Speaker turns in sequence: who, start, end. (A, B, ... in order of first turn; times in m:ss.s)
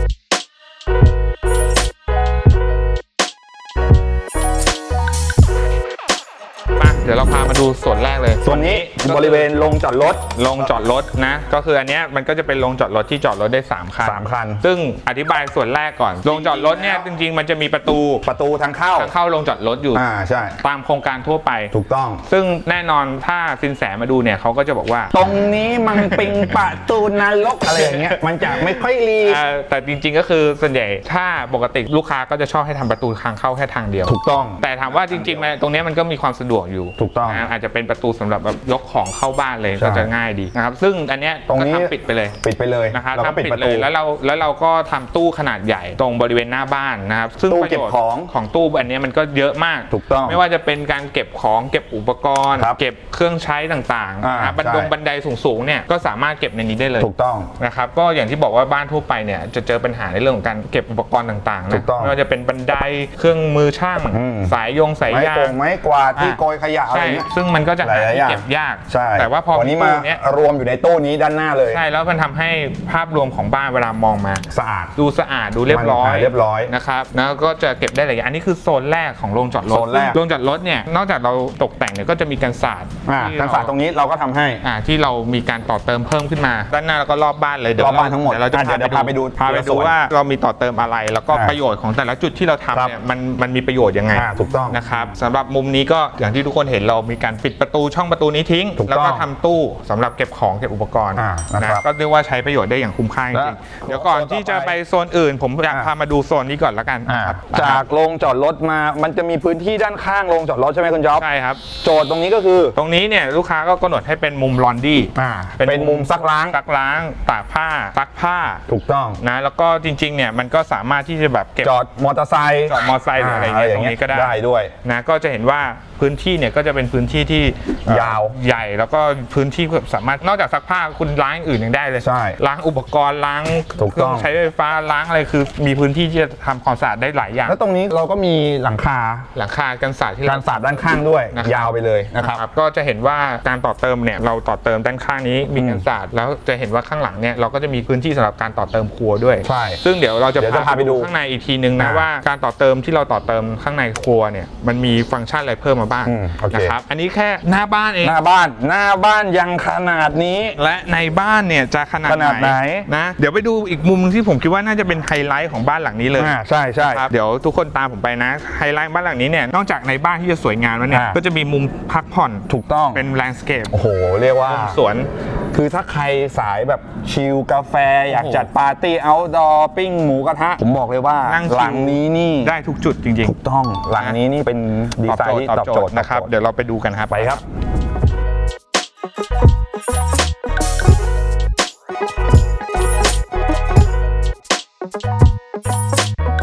0:06.8-0:09.5 A
0:08.4-0:10.7 B
0:10.4-0:18.2 A
0:14.0-0:14.6 B
0:16.2-0:17.1 B
0:18.2-0:19.1 B
0:19.0-0:20.0 A
0:19.9-0:20.6 B
0:20.6-0:21.7 A
0:21.7-0:22.2 B
0:22.3-0:25.2 A
0:25.1-0:29.4 B
0:25.9-0:26.6 A
0:27.6-0:42.4 A
0:34.1-0:35.5 B
0:37.0-0:37.4 B
0:39.8-0:40.1 B
0:41.5-0:43.9 B
0:42.9-1:05.6 A
0:47.5-0:48.3 B
0:49.9-0:50.4 B
0:54.2-0:54.9 B
0:57.0-0:57.5 B
1:01.7-1:02.2 B
1:04.1-1:04.5 B
1:05.1-1:07.3 B
1:06.2-1:10.2 A
1:07.8-1:11.8 B
1:11.7-1:23.7 A
1:14.5-1:14.9 B
1:15.7-1:16.7 B
1:19.7-1:20.2 B
1:23.1-1:24.6 B
1:24.6-1:47.8 A
1:27.8-1:30.0 B
1:31.3-1:31.6 B
1:34.1-1:34.8 B
1:38.8-1:39.3 B
1:41.2-1:41.9 B
1:43.3-1:44.8 B
1:47.1-1:52.8 B
1:51.2-1:51.6 A
1:52.8-1:58.6 A
1:55.2-1:56.6 B
1:58.7-1:59.2 B
1:59.2-2:01.7 A
2:01.6-2:04.7 B
2:02.7-2:17.6 A
2:07.9-2:08.4 B
2:12.0-2:12.4 B
2:13.8-2:14.3 B
2:17.5-2:19.3 B
2:19.4-2:38.2 A
2:20.3-2:22.4 B
2:25.6-2:25.8 B
2:29.4-2:29.8 B
2:30.4-2:31.1 B
2:31.8-2:32.1 B
2:36.1-2:36.8 B
2:38.0-2:40.6 B
2:40.6-2:53.7 A
2:42.1-2:42.9 B
2:46.2-2:47.1 B
2:50.9-2:51.2 B
2:52.5-2:53.1 B
2:53.7-2:54.8 B
2:54.4-2:55.1 A
2:55.5-3:02.5 B
2:58.1-2:58.5 A
3:01.2-3:03.4 A
3:03.2-3:06.3 B
3:05.0-3:07.4 A
3:07.1-3:07.4 B